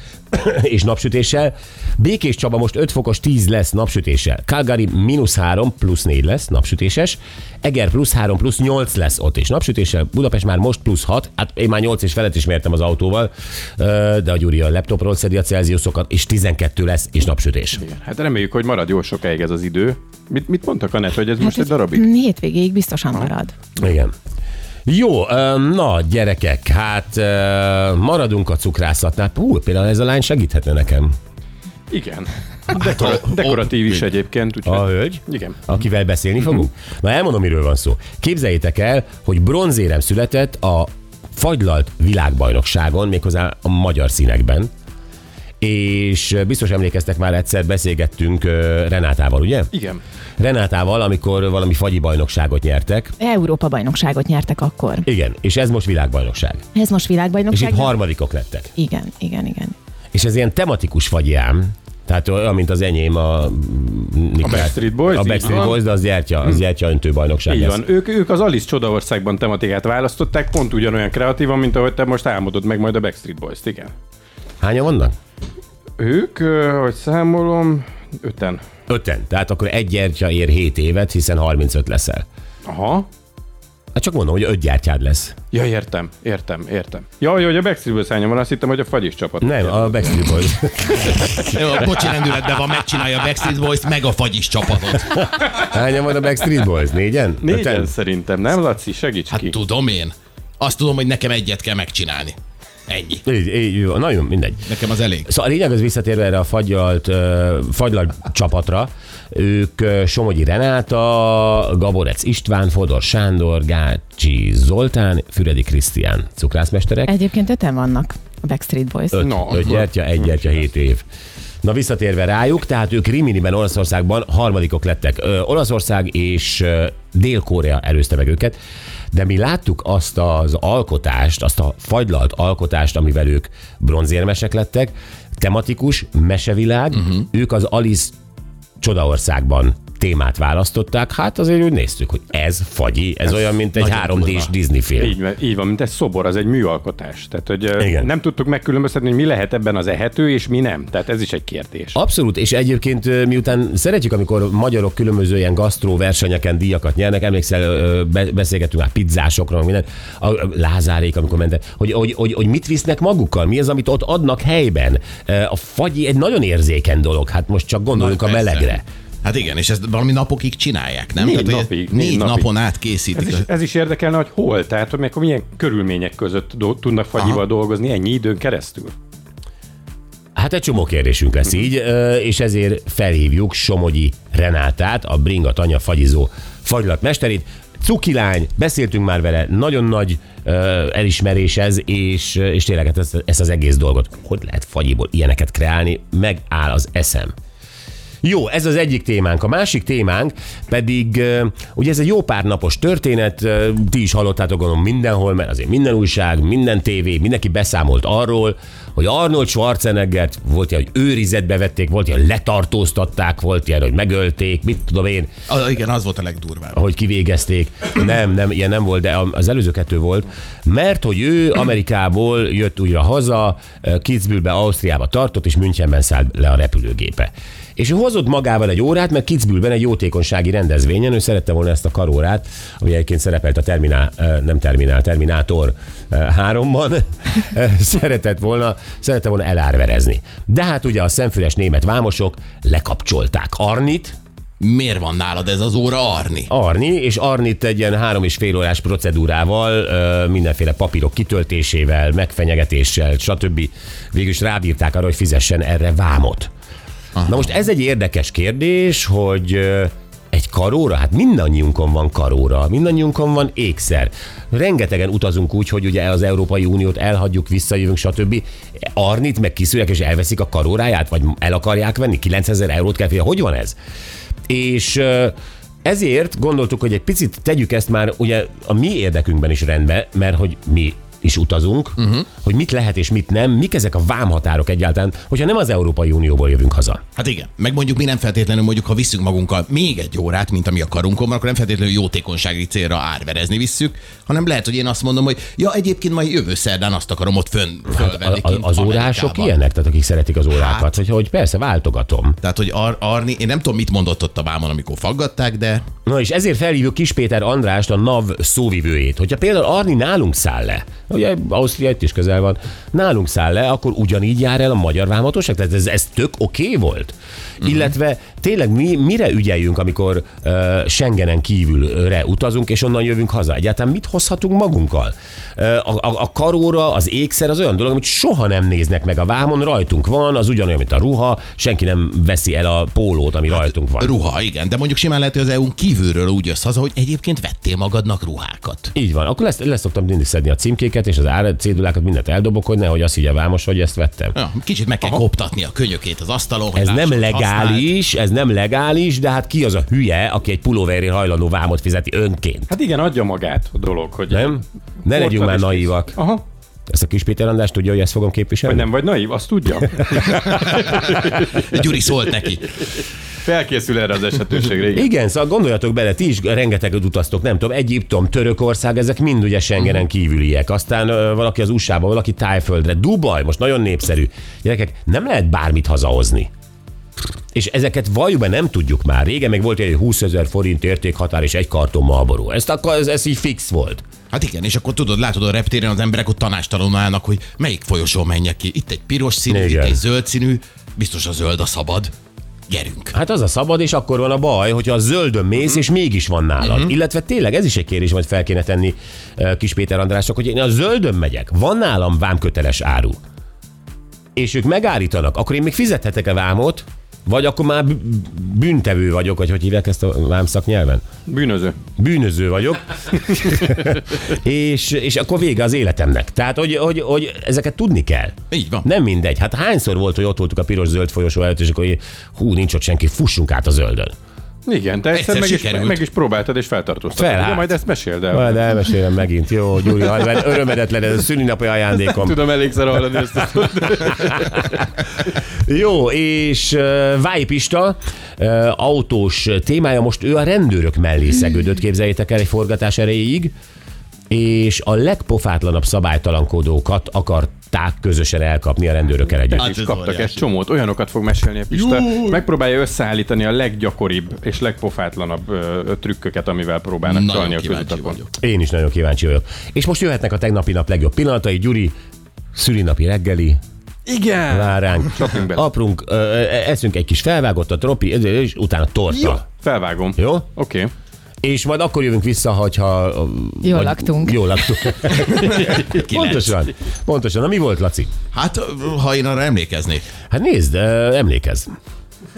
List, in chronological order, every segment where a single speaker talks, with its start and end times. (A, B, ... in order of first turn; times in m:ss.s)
0:00.3-0:17.8 A
0:17.8-0:22.0 B
0:21.4-0:23.5 C
0:23.8-0:24.1 A
0:24.9-0:31.1 A
0:31.9-0:35.6 B
0:32.7-0:33.6 D
0:34.6-0:44.7 A
0:45.6-0:49.7 A
0:49.7-0:50.0 B
0:50.4-0:53.1 A
0:53.2-0:55.1 C
0:55.0-0:56.6 A
0:56.7-0:58.0 C
0:57.5-0:58.7 A
0:58.8-0:59.8 C
1:00.1-1:07.8 A
1:04.4-1:05.8 B
1:07.5-1:13.9 B
1:14.6-1:15.2 A
1:16.0-1:18.6 B
1:18.9-1:22.2 A
1:22.6-1:23.1 B
1:24.0-1:25.4 A
1:25.5-1:30.1 B
1:29.4-1:31.6 A
1:31.5-1:35.3 D
1:35.1-1:37.9 A
1:37.4-1:39.6 B
1:39.3-1:43.2 D
1:43.2-1:44.7 A
1:44.7-1:45.3 D
1:45.2-1:57.1 A
1:57.0-1:59.3 C
1:59.1-2:01.0 A
1:59.2-1:59.9 B
2:01.6-2:08.6 A
2:09.1-2:18.1 A
2:18.8-2:25.2 A
2:23.7-2:24.5 D
2:25.0-2:32.0 B
2:27.8-2:28.1 A
2:31.9-2:48.8 A
2:47.9-2:48.7 D
2:49.2-2:53.5 D
2:51.2-2:52.5 B
2:53.1-2:58.9 B
2:57.2-2:57.4 D
3:00.4-3:17.3 A
3:18.2-3:35.3 A
3:35.5-3:36.8 D
3:36.7-4:04.2 A
4:04.6-4:06.5 D
4:06.5-4:16.5 A
4:17.2-4:17.4 D
4:17.3-4:33.8 A
4:34.5-4:47.0 A
4:42.0-4:42.3 D
4:47.2-4:59.5 D
4:57.9-5:02.4 A
5:00.6-5:00.9 D
5:02.4-5:05.8 D
5:06.0-5:34.1 A
5:34.0-5:38.9 D
5:38.9-5:44.4 A
5:44.3-5:47.9 D
5:46.7-5:52.7 A
5:52.7-5:56.4 B
5:54.3-5:56.2 A
5:56.9-5:58.9 A
5:58.7-6:01.7 B
6:00.1-6:00.6 A
6:01.4-6:02.7 D
6:03.4-6:05.1 B
6:04.9-6:16.5 A
6:17.5-6:24.0 A
6:24.3-6:32.1 D
6:29.5-6:30.0 A
6:32.7-6:33.1 D
6:33.1-6:43.2 A
6:36.6-6:36.9 D
6:44.4-6:51.0 A
6:51.3-6:51.8 B
6:52.0-7:04.1 A
6:58.5-6:58.9 D
7:04.6-7:08.6 B
7:05.1-7:06.0 D
7:07.1-7:07.7 A
7:08.3-7:12.4 A
7:12.0-7:14.8 B
7:15.6-7:23.5 A
7:24.3-7:29.7 A
7:29.5-7:38.2 B
7:29.6-7:30.4 D
7:31.8-7:32.4 D
7:37.1-7:38.3 D
7:38.4-7:41.9 A
7:42.5-7:43.6 A
7:44.1-7:45.6 B
7:44.5-7:49.4 A
7:49.1-7:50.9 B
7:50.2-7:50.5 A
7:51.4-7:58.1 A
7:53.6-7:54.4 C
7:55.3-7:56.5 D
7:55.4-7:55.9 B
7:58.3-8:00.1 D
8:00.3-8:01.7 A